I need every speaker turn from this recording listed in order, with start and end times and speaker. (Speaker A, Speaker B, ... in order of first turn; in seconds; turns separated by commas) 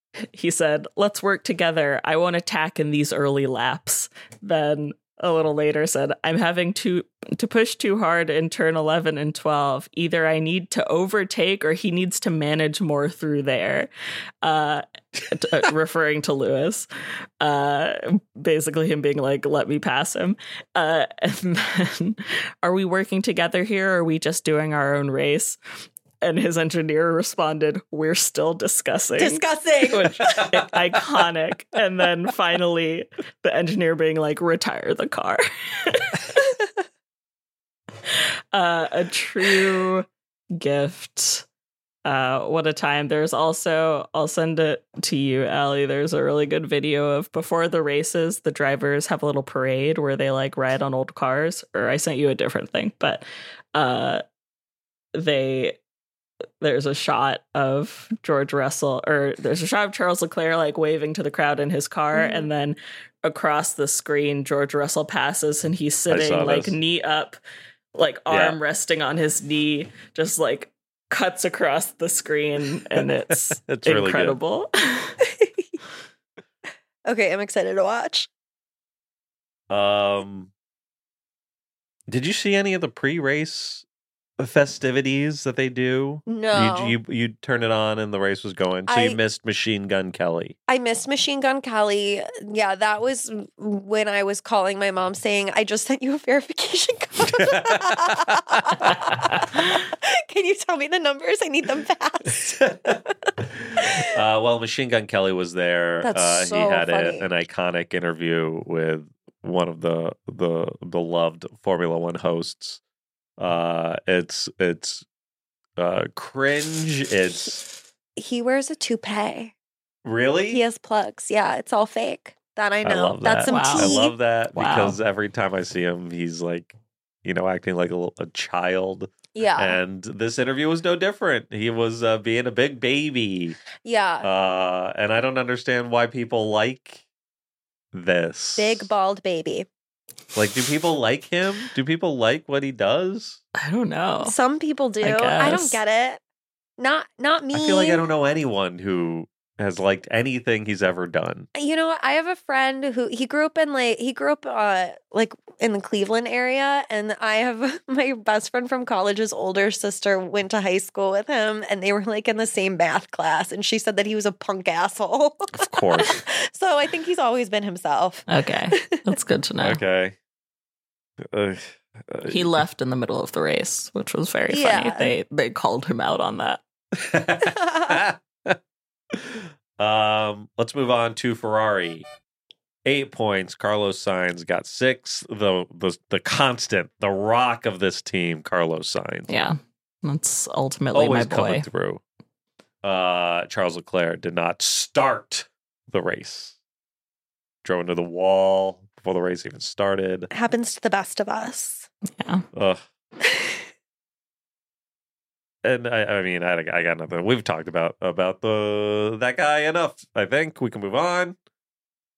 Speaker A: 0.2-13.9, Speaker A: 14.4-16.9, Speaker A: 17.4-25.6, Speaker A: 26.2-36.4, Speaker B: 29.2-30.4, Speaker C: 30.3-30.7, Speaker A: 38.1-41.5, Speaker A: 42.0-54.2, Speaker A: 55.1-55.8, Speaker A: 56.6-67.4, Speaker B: 62.1-62.5, Speaker C: 66.1-66.8, Speaker A: 68.0-75.2, Speaker C: 68.3-68.6, Speaker C: 72.9-74.4, Speaker B: 77.1-78.3, Speaker C: 79.7-80.5, Speaker C: 82.1-83.8, Speaker C: 84.4-90.5, Speaker B: 86.3-87.0, Speaker B: 88.9-89.2, Speaker B: 90.7-102.7, Speaker C: 97.2-99.2, Speaker C: 102.3-103.0, Speaker C: 103.5-112.8, Speaker B: 106.0-107.3, Speaker C: 113.4-115.0, Speaker C: 115.8-117.6, Speaker B: 118.2-119.5, Speaker C: 120.0-120.6, Speaker B: 120.5-124.2, Speaker C: 122.8-133.6, Speaker A: 123.5-124.0, Speaker A: 124.5-125.0, Speaker B: 129.3-129.8, Speaker B: 133.8-134.3, Speaker C: 134.2-137.0, Speaker C: 137.9-138.9, Speaker B: 138.6-139.7, Speaker C: 140.3-143.4, Speaker A: 143.6-144.3, Speaker B: 144.2-146.2, Speaker A: 145.0-145.8, Speaker B: 146.8-148.0, Speaker C: 147.5-151.5, Speaker B: 151.6-169.0, Speaker C: 165.5-166.2, Speaker A: 168.3-169.8, Speaker C: 169.6-170.2, Speaker C: 171.3-172.6, Speaker A: 172.3-176.6, Speaker B: 174.5-175.1, Speaker C: 176.9-178.6, Speaker B: 177.5-177.9, Speaker C: 179.1-182.1, Speaker C: 182.8-189.3, Speaker A: 189.3-191.7, Speaker C: 190.9-192.0, Speaker C: 192.8-196.6, Speaker C: 197.6-200.3, Speaker B: 200.3-201.9, Speaker A: 202.2-202.4, Speaker C: 202.5-202.8, Speaker B: 203.2-203.6, Speaker C: 205.6-211.4